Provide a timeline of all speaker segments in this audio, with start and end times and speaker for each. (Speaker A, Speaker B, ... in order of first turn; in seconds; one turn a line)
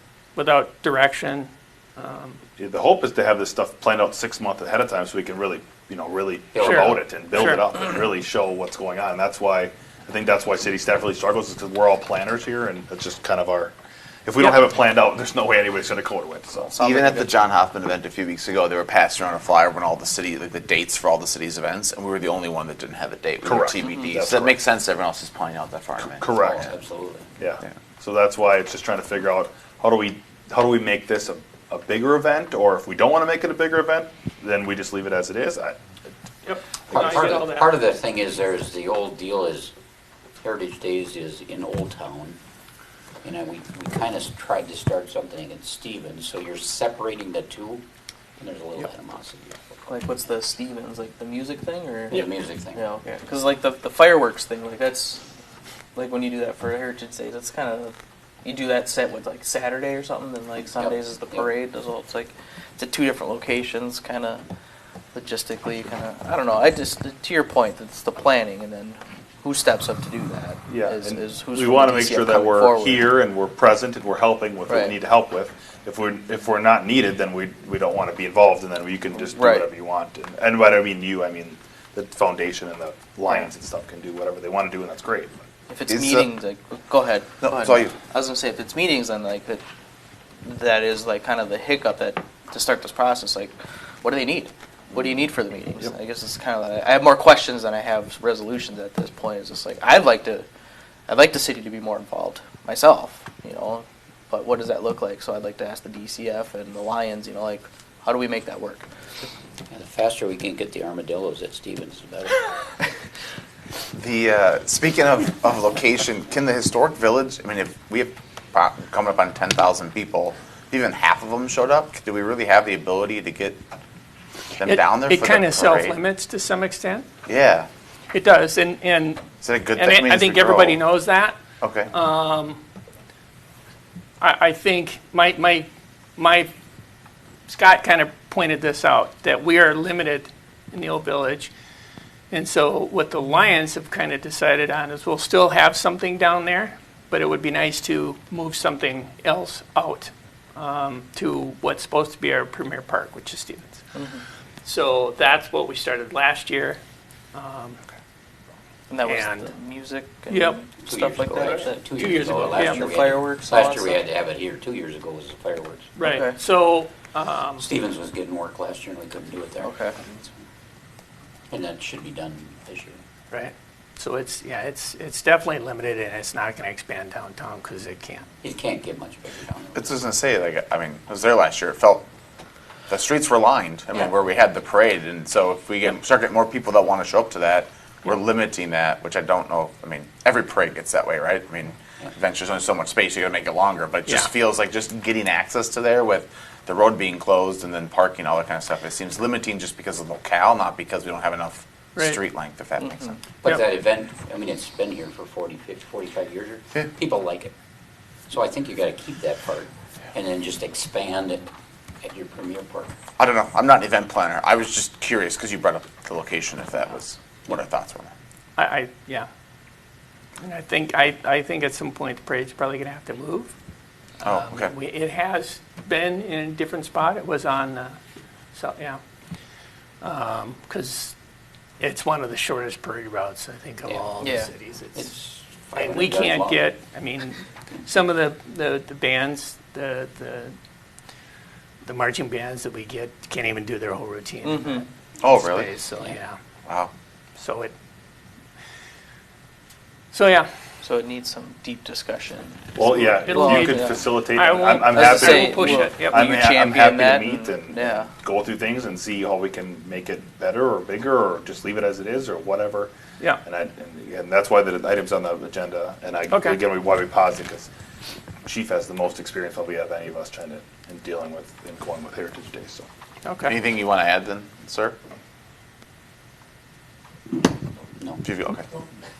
Speaker A: 0.3-2.4
Speaker B: 2.6-13.7
Speaker C: 6.5-6.9
Speaker A: 6.6-7.6
Speaker B: 14.2-16.8
Speaker D: 16.6-17.2
Speaker E: 16.8-26.7
Speaker B: 23.4-24.6
Speaker B: 26.0-26.7
Speaker C: 26.3-27.3
Speaker B: 27.4-35.8
Speaker A: 36.4-37.8
Speaker B: 36.9-37.4
Speaker C: 36.9-39.7
Speaker C: 40.4-42.4
Speaker C: 43.2-47.8
Speaker C: 48.4-49.6
Speaker D: 49.9-55.2
Speaker C: 52.1-52.9
Speaker D: 55.9-64.4
Speaker C: 60.7-61.5
Speaker D: 65.1-73.1
Speaker B: 70.7-85.4
Speaker D: 74.7-75.0
Speaker D: 79.2-79.7
Speaker D: 85.7-89.6
Speaker E: 85.9-86.3
Speaker E: 87.4-87.9
Speaker D: 90.4-100.5
Speaker D: 101.1-108.9
Speaker C: 109.7-112.5
Speaker E: 113.9-123.6
Speaker E: 124.5-126.0
Speaker A: 124.6-127.0
Speaker E: 127.3-127.7
Speaker A: 128.1-129.2
Speaker E: 129.4-130.8
Speaker A: 129.8-131.3
Speaker E: 131.6-131.9
Speaker A: 131.9-132.6
Speaker A: 134.2-136.5
Speaker A: 137.5-141.5
Speaker A: 142.3-153.8
Speaker D: 153.9-154.2
Speaker A: 154.6-156.8
Speaker A: 157.3-157.8
Speaker D: 158.9-164.0
Speaker A: 159.0-159.5
Speaker A: 160.3-160.6
Speaker C: 160.8-166.0
Speaker A: 161.3-162.9
Speaker A: 165.9-167.7
Speaker D: 166.0-166.4
Speaker C: 167.6-170.3
Speaker D: 169.6-170.0
Speaker C: 171.5-173.0
Speaker A: 173.3-178.2
Speaker C: 178.4-179.8
Speaker E: 179.7-182.0
Speaker E: 182.9-203.2
Speaker D: 202.8-203.1
Speaker C: 203.4-207.5
Speaker C: 208.3-211.5
Speaker C: 212.0-212.9
Speaker E: 213.2-218.1
Speaker A: 218.6-219.3
Speaker A: 220.4-223.5
Speaker A: 224.2-228.0
Speaker E: 224.2-224.7
Speaker A: 228.5-229.0
Speaker A: 230.0-231.1
Speaker A: 231.8-235.1
Speaker C: 233.8-234.3
Speaker D: 234.2-234.5
Speaker C: 234.9-236.7
Speaker A: 235.7-240.5
Speaker A: 241.8-246.4
Speaker D: 244.4-244.8
Speaker E: 245.2-245.7
Speaker A: 247.4-247.7
Speaker A: 250.1-250.5
Speaker D: 250.8-254.1
Speaker B: 252.7-262.9
Speaker A: 253.2-256.3
Speaker D: 254.8-258.1
Speaker B: 263.4-267.7
Speaker A: 266.3-266.6
Speaker B: 268.4-272.9
Speaker A: 273.2-273.6
Speaker E: 273.4-274.9
Speaker E: 278.2-278.7